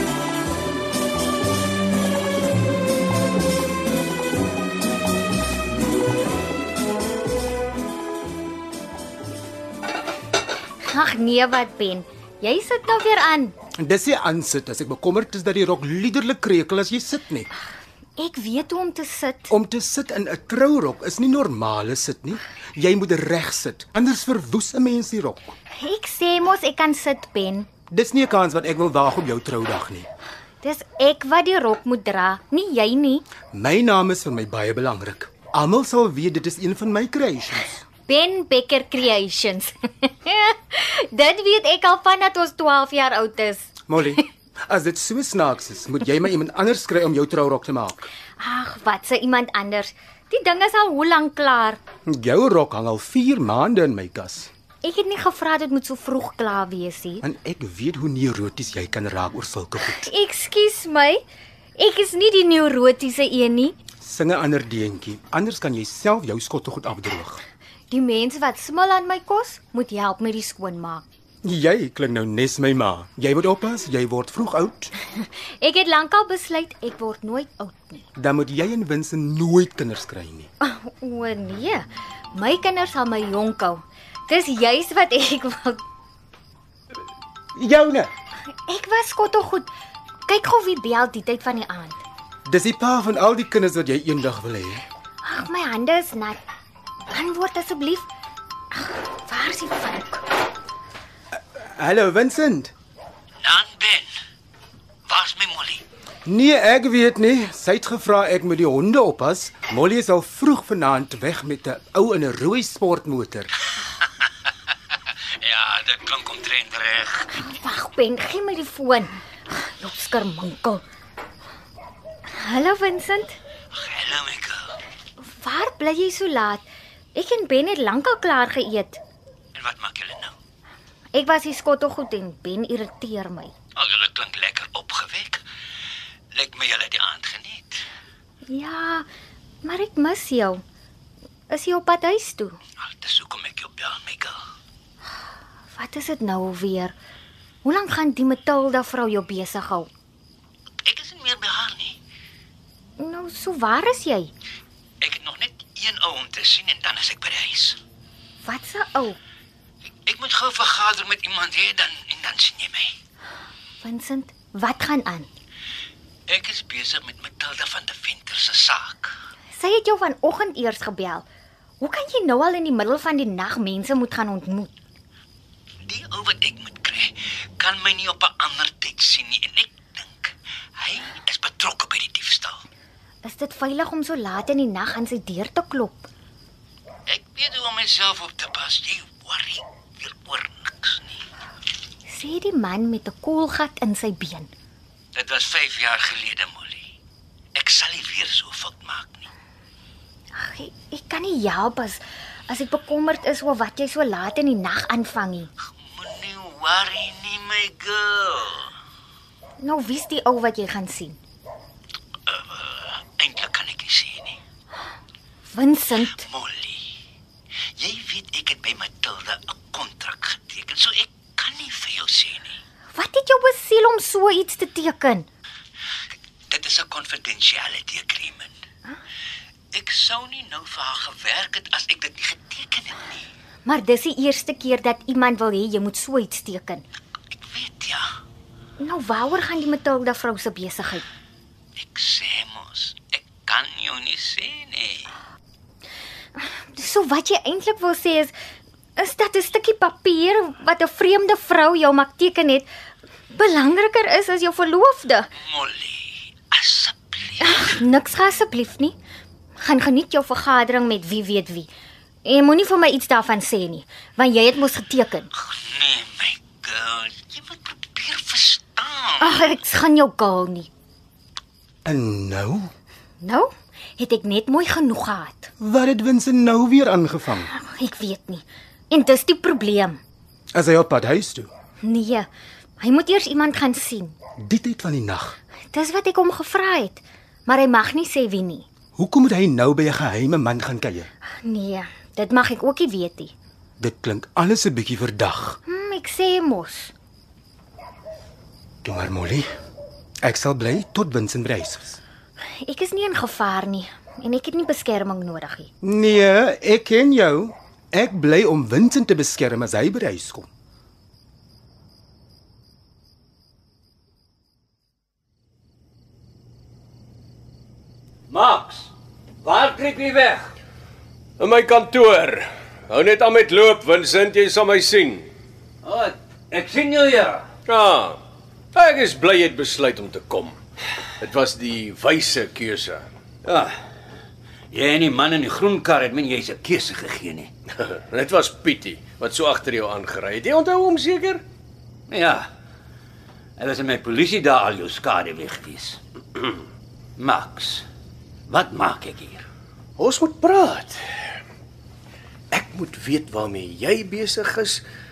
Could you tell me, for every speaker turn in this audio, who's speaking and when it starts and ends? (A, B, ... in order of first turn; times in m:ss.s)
0:10.9-0:13.6 A
0:13.8-0:17.5 B
0:18.2-0:19.5 A
0:19.5-0:25.6 B
0:25.8-0:27.7 A
0:27.9-0:30.1 B
0:30.6-0:33.2 A
0:33.5-0:37.8 B
0:38.1-0:43.7 A
0:43.9-0:48.1 B
0:48.4-0:51.8 A
0:52.1-0:54.5 B
0:54.8-0:57.2 A
0:57.2-1:00.1 B
0:59.8-1:01.2 A
1:01.8-1:03.8 A
1:04.0-1:07.4 B
1:07.9-1:11.0 A
1:11.4-1:14.9 B
1:15.2-1:18.1 A
1:18.2-1:20.5 B
1:20.6-1:25.8 A
1:27.6-1:28.1 B
1:28.6-1:29.7 A
1:30.3-1:32.0 A
1:32.5-1:34.8 B
1:35.2-1:36.4 A
1:37.1-1:38.1 A
1:38.7-1:40.2 A
1:41.8-1:42.7 B
1:43.4-1:44.1 C
1:45.1-1:45.8 C
1:46.3-1:53.5 B
1:55.4-1:57.3 C
1:57.3-2:00.8 A
2:02.3-2:03.4 A
2:03.7-2:04.8 C
2:05.2-2:09.0 A
2:09.6-2:10.3 C
2:11.1-2:13.5 A
2:13.8-2:15.4 C
2:16.3-2:17.8 C
2:18.5-2:19.1 A
2:19.6-2:20.6 A
2:21.5-2:22.6 A
2:22.8-2:24.4 C
2:25.7-2:26.9 A
2:27.6-2:29.9 A
2:30.8-2:32.0 C
2:33.0-2:34.3 A
2:35.0-2:37.8 C
2:38.4-2:39.2 A
2:40.1-2:43.0 C
2:43.8-2:45.3 A
2:46.3-2:49.1 C
2:49.6-2:51.3 A
2:51.8-2:54.7 A
2:55.8-3:02.6 C
3:03.2-3:06.1 A
3:07.1-3:11.2 C
3:12.1-3:14.5 A
3:15.1-3:16.9 C
3:17.6-3:19.3 C
3:20.3-3:25.5 A
3:25.8-3:28.7 C
3:29.6-3:31.2 A
3:32.3-3:34.4 C
3:35.5-3:36.3 A
3:36.1-3:36.9 C
3:37.8-3:42.6 C
3:42.9-3:45.3 A
3:46.5-3:48.5 C
3:49.7-3:53.3 C
3:53.7-3:56.8 A
3:57.3-3:58.1 C
3:58.8-4:01.0 A
4:01.8-4:05.1 C
4:06.4-4:08.3 A
4:09.0-4:12.7 A
4:13.3-4:15.3 A
4:15.4-4:17.8 C
4:17.4-4:19.0 A
4:19.6-4:21.7 A
4:22.2-4:25.3 A
4:25.4-4:29.4 C
4:29.2-4:30.7 A
4:31.9-4:32.7 B
4:33.2-4:35.5 A
4:35.6-4:37.5 B
4:37.5-4:40.0 A
4:40.5-4:41.5 B
4:41.8-4:42.3 A
4:42.8-4:44.2 A
4:44.4-4:45.4 B
4:45.7-4:48.7 A
4:49.0-4:51.1 B
4:51.4-4:53.3 A
4:53.8-4:55.6 B
4:55.7-4:56.9 A
4:58.8-4:59.5 B
5:00.2-5:02.0 B
5:02.6-5:05.7 A
5:05.8-5:10.5 B
5:18.3-5:18.9 C
5:19.4-5:20.5 C
5:21.4-5:25.3 D
5:25.8-5:27.4 C
5:27.7-5:28.2 D
5:28.7-5:30.6 D
5:31.2-5:33.1 D
5:33.4-5:33.7 C
5:34.7-5:37.5 C
5:37.8-5:41.4 D
5:42.1-5:42.5 C
5:43.6-5:46.0 C
5:47.2-5:47.8 C
5:48.5-5:49.5 C
5:50.0-5:51.0 D
5:52.5-5:54.8 D